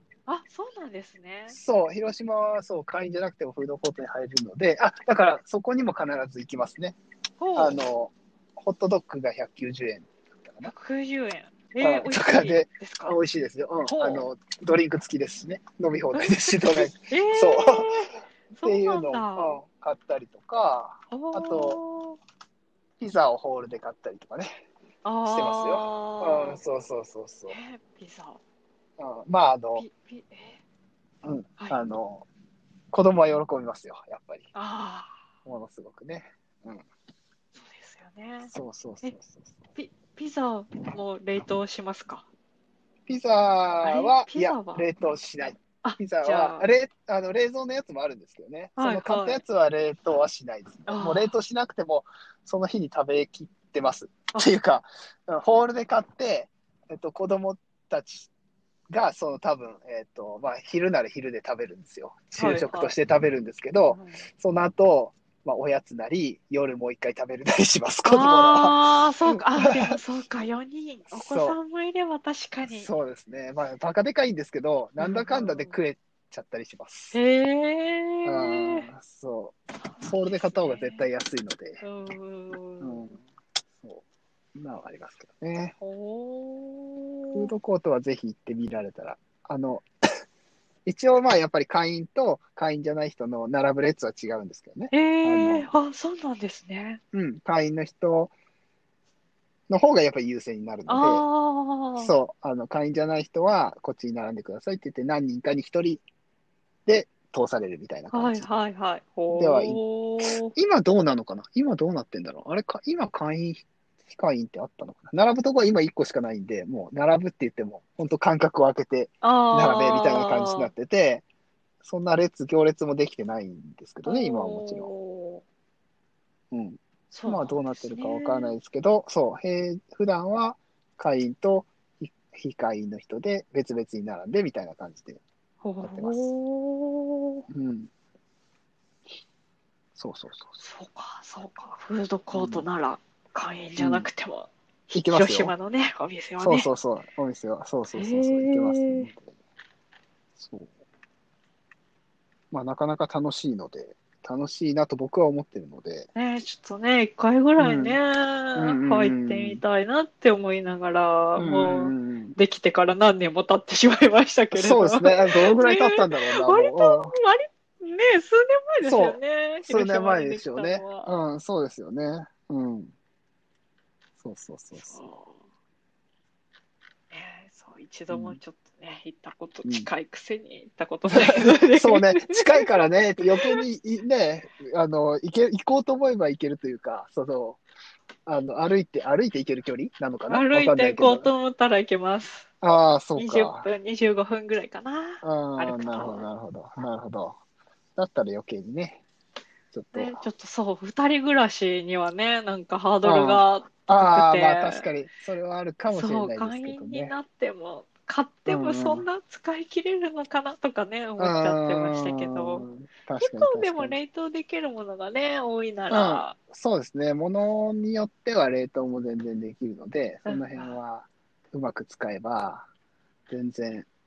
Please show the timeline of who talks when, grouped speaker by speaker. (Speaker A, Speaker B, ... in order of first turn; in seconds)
Speaker A: 0.3-1.6, 7.4-7.8, 10.7-13.2, 13.8-14.3, 16.1-19.6, 21.1-22.2, 25.0-26.6, 27.5-28.4, 29.8-30.6, 31.6-31.8, 34.5-35.1, 37.5-38.5, 39.8-42.3, 43.8-44.9, 45.8-46.7, 48.8-49.4, 50.9-51.3, 62.4-62.9, 63.9-64.2, 68.1-72.9, 75.0-75.8, 77.1-78.8, 80.0-81.0, 81.8-83.1, 85.8-87.5, 94.9-97.0, 100.9-102.1, 108.1-110.5, 119.2-120.7, 124.0-125.4, 127.1-128.5, 135.6-137.4, 140.6-146.7, 147.9-149.1, 156.1-171.1, 174.7-175.4, 177.1-182.6, 190.3-192.5, 193.2-196.3, 199.9-204.9, 205.9-212.7, 213.2-216.3, 220.2-220.8
Speaker B: 1.5-7.0, 7.5-10.7, 11.8-17.9, 18.6-21.8, 23.0-24.5, 25.2-27.6, 29.0-29.9, 31.2-32.2, 32.9-34.5, 35.4-36.8, 38.5-39.5, 43.1-58.3, 58.9-69.9, 71.1-71.6, 72.7-77.2, 78.2-81.8, 82.8-83.2, 84.5-85.8, 87.3-89.9, 90.8-95.7, 97.1-98.3, 99.7-101.2, 102.0-106.0, 106.9-108.5, 109.3-121.2, 121.8-124.9, 126.5-135.2, 135.8-136.3, 137.5-137.9, 139.9-140.6, 142.3-142.7, 143.8-144.1, 144.9-145.5, 146.4-149.3, 150.4-150.7, 152.5-156.1, 157.6-158.0, 158.6-159.6, 161.4-162.4, 164.5-167.1, 168.8-172.9, 174.2-175.1, 178.1-178.4, 179.6-179.9, 181.1-187.6, 188.2-191.3, 192.6-193.7, 195.2-197.4, 198.0-199.0, 199.7-200.2, 203.0-207.1, 208.5-209.1, 211.2-214.0, 215.9-222.7, 223.3-223.9